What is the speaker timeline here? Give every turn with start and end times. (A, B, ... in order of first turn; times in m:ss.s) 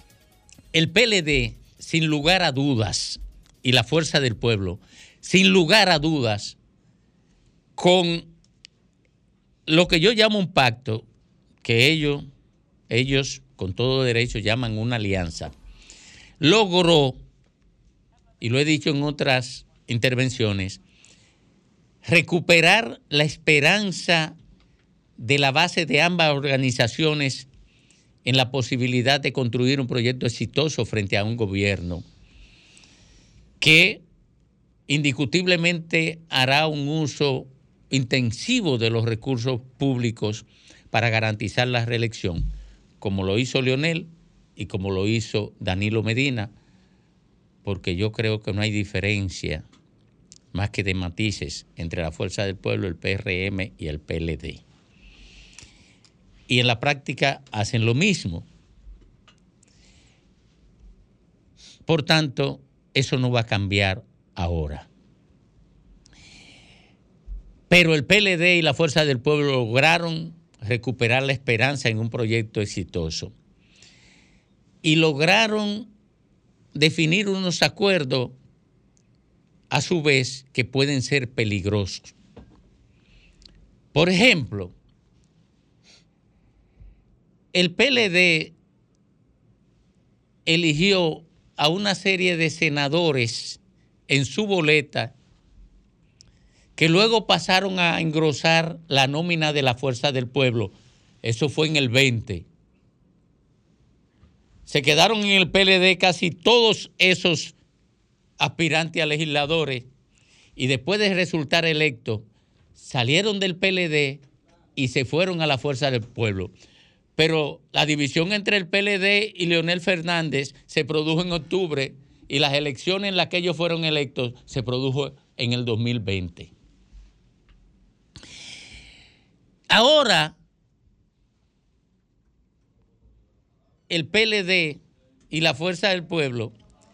0:00.7-0:06.6 A
0:07.8-0:08.3 A
0:09.7-0:11.1 A
0:11.6-0:12.3 A
0:12.9-0:15.5 A
0:16.4-0:17.2 A
0:18.4-0:20.8 A
0:22.0-0:24.4 A
0:25.2-0:27.5 A
0:28.2-0:32.0 A
0:33.6-0:34.0 A
0:34.9-0:42.5 A
0:43.0-0:46.5 A
0:47.6-0:49.6 A
0:50.5-0:54.6 A
0:56.5-0:58.5 A
1:01.8-1:04.9 A
1:07.7-1:13.3 A
1:14.8-1:15.9 A
1:16.7-1:18.4 A
1:19.7-1:22.1 A
1:23.9-1:24.7 A
1:27.5-1:28.5 A
1:30.4-1:35.1 A
1:36.8-1:42.4 A
1:44.7-1:47.5 A
1:48.4-1:49.9 A
1:50.6-1:52.2 A
1:52.8-1:54.2 A
1:54.8-1:56.5 A
1:57.2-2:06.5 A
2:09.7-2:10.4 A
2:13.9-2:16.5 A